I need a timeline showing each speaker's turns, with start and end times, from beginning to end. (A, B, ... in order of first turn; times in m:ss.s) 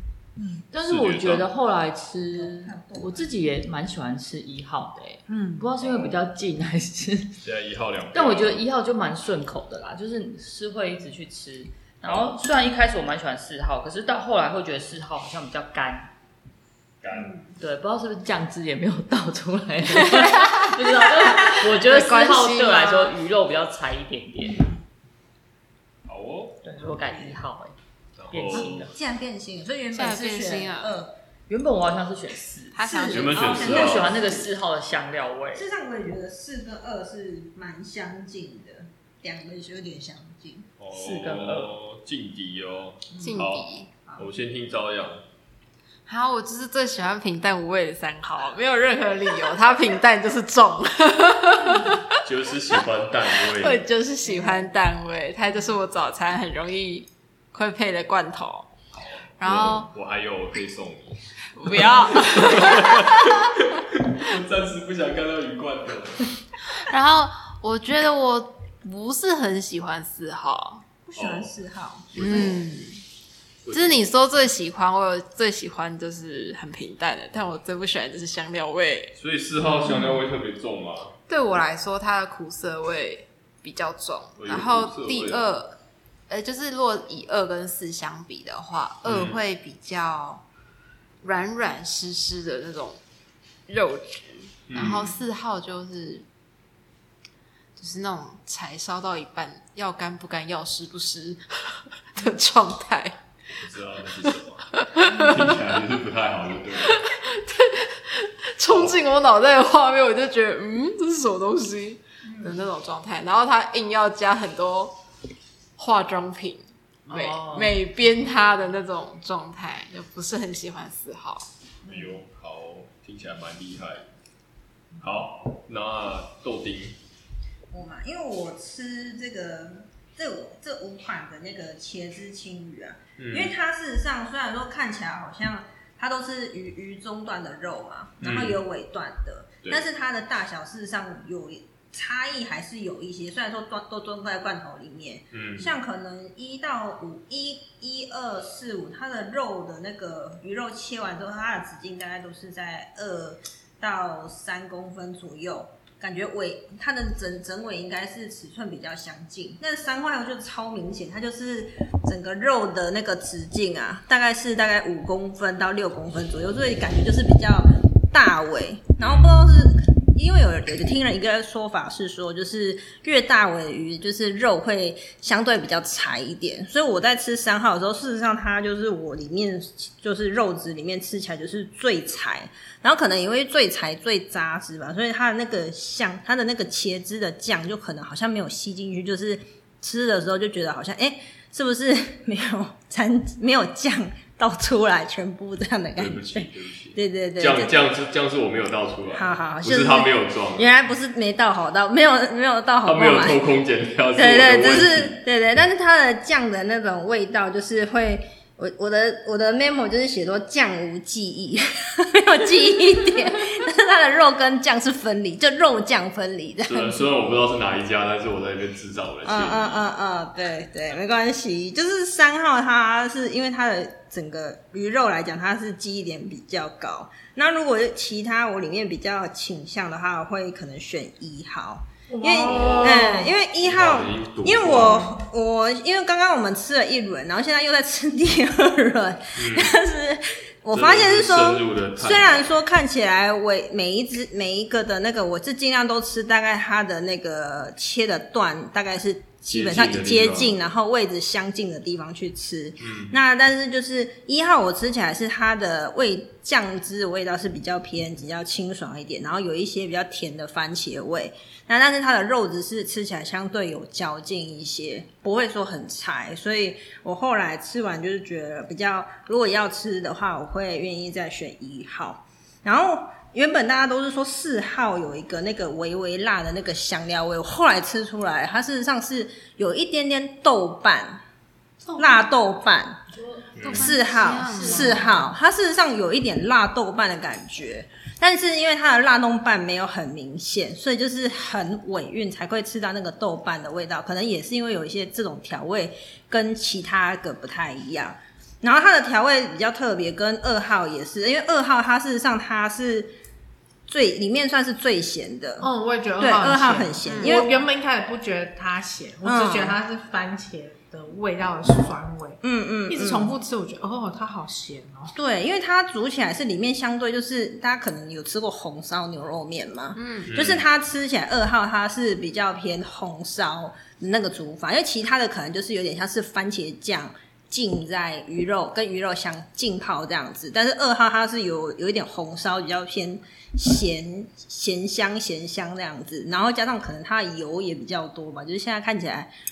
0:00.4-0:00.6 A
0:00.7-0:07.4 B
0:00.8-0:01.5 C
0:02.3-0:03.3 D
0:05.3-0:05.7 A
0:07.4-0:08.6 C
0:08.1-0:16.1 B
0:12.0-0:12.3 C
0:17.0-0:17.4 C
0:17.1-0:17.5 D
0:17.6-0:24.7 B
0:20.0-0:23.1 E
0:26.1-0:26.6 C
0:26.6-0:27.8 B
0:26.8-0:27.4 D
0:28.2-0:28.9 C
0:28.3-0:28.9 B
0:28.5-0:31.2 D
0:29.9-0:31.0 E
0:31.5-0:35.7 B
0:32.7-0:33.9 E
0:32.8-0:34.5 D
0:33.1-0:34.1 C
0:35.5-0:40.7 D
0:40.8-0:45.2 C
0:40.9-0:41.8 B
0:43.2-0:43.9 E
0:46.1-0:52.1 E
0:52.2-0:53.8 C
0:53.4-0:58.7 E
0:58.9-1:06.4 C
0:59.4-0:59.9 E
1:01.6-1:03.4 E
1:06.7-1:10.8 E
1:11.1-1:12.6 D
1:11.2-1:11.6 C
1:12.1-1:12.8 C
1:12.2-1:13.0 E
1:13.6-1:14.0 C
1:13.7-1:19.1 E
1:19.2-1:21.2 C
1:21.3-1:30.4 E
1:24.4-1:25.5 C
1:29.0-1:29.4 C
1:31.2-1:33.0 E
1:33.7-1:36.2 E
1:34.7-1:35.2 C
1:37.8-1:43.2 E
1:43.6-1:47.0 C
1:44.9-1:45.3 E
1:46.8-1:55.0 E
1:48.7-1:49.1 C
1:55.8-2:01.5 E
1:57.1-1:57.8 B
2:01.8-2:02.1 D
2:01.8-2:04.1 C
2:05.0-2:07.0 C
2:07.7-3:17.8 D
2:13.2-2:13.5 C
2:18.2-2:18.6 C
2:25.3-2:25.8 C
2:49.0-2:49.5 C
3:16.0-3:20.7 C
3:19.1-3:23.4 D
3:22.8-3:25.2 C
3:24.2-3:37.0 D
3:36.6-3:39.8 C
3:39.2-4:41.2 D
3:52.1-3:53.3 A
3:52.4-3:55.1 C
3:59.3-3:59.8 C
4:00.7-4:02.5 C
4:09.5-4:10.6 C
4:12.8-4:13.2 C
4:41.9-4:42.2 A
4:42.0-4:43.0 D
4:43.1-4:45.3 B
4:43.6-4:43.9 C
4:43.6-4:45.1 E
4:43.7-5:03.2 D
5:03.9-5:07.5 D
5:05.6-5:15.1 A
5:07.1-5:07.4 E
5:09.2-5:09.8 D
5:12.4-5:13.3 D
5:15.1-5:39.3 D
5:20.0-5:20.3 E
5:20.3-5:20.6 C